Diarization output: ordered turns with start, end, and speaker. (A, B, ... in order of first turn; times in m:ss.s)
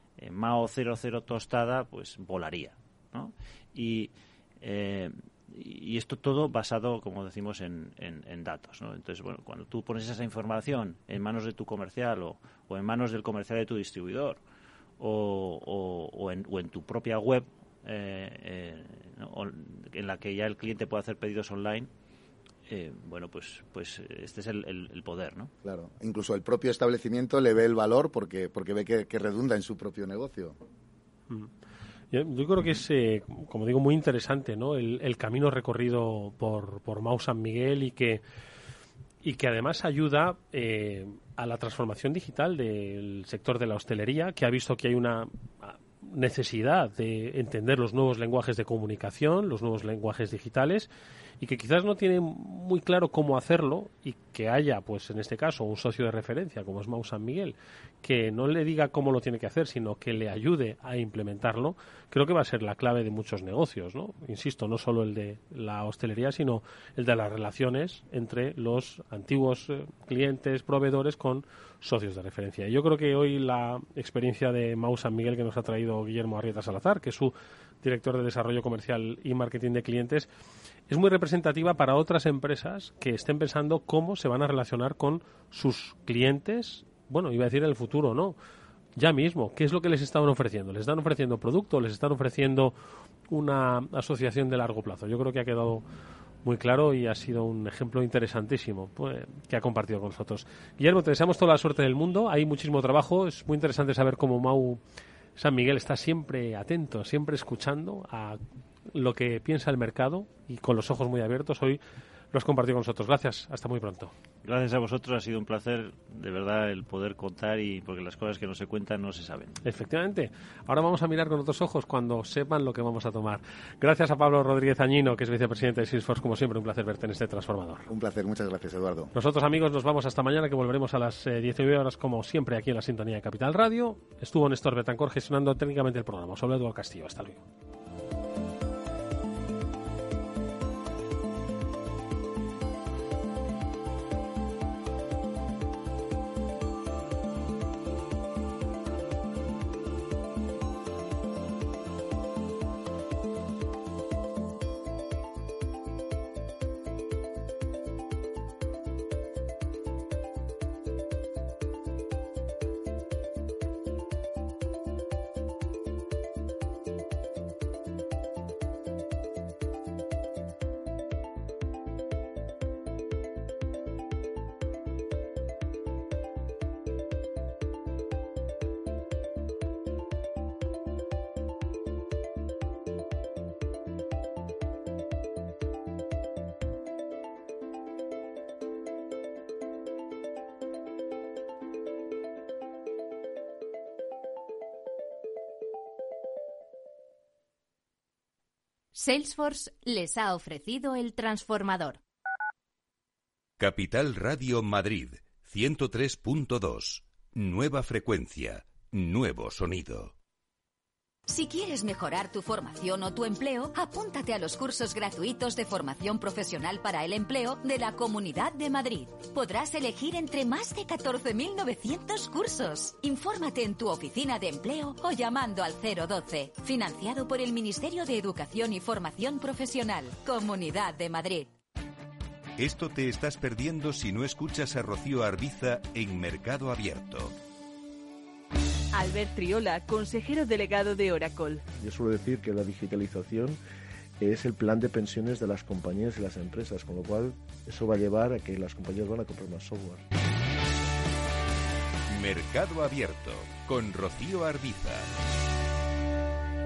0:00.2-0:14.4 A
0:15.0-0:21.9 A
0:22.7-0:25.5 A
0:25.6-0:30.6 B
0:32.1-0:38.2 C
0:39.2-0:50.9 C
0:51.4-1:20.3 C
1:20.9-1:28.4 C
1:29.0-1:32.7 C
1:33.3-1:35.8 C
1:36.4-1:44.8 C
1:45.4-1:48.4 C
1:48.9-1:51.8 C
1:52.3-1:54.1 C
1:54.4-1:59.6 A
1:59.6-2:07.9 C
2:07.9-2:09.1 B
2:09.1-2:17.4 C
3:18.9-3:22.0 D
3:23.6-3:30.1 E
3:31.3-3:51.5 F
3:52.6-3:57.3 E
3:58.9-4:01.6 G
4:01.8-4:03.6 H
4:04.2-4:10.0 H
4:12.1-4:15.1 E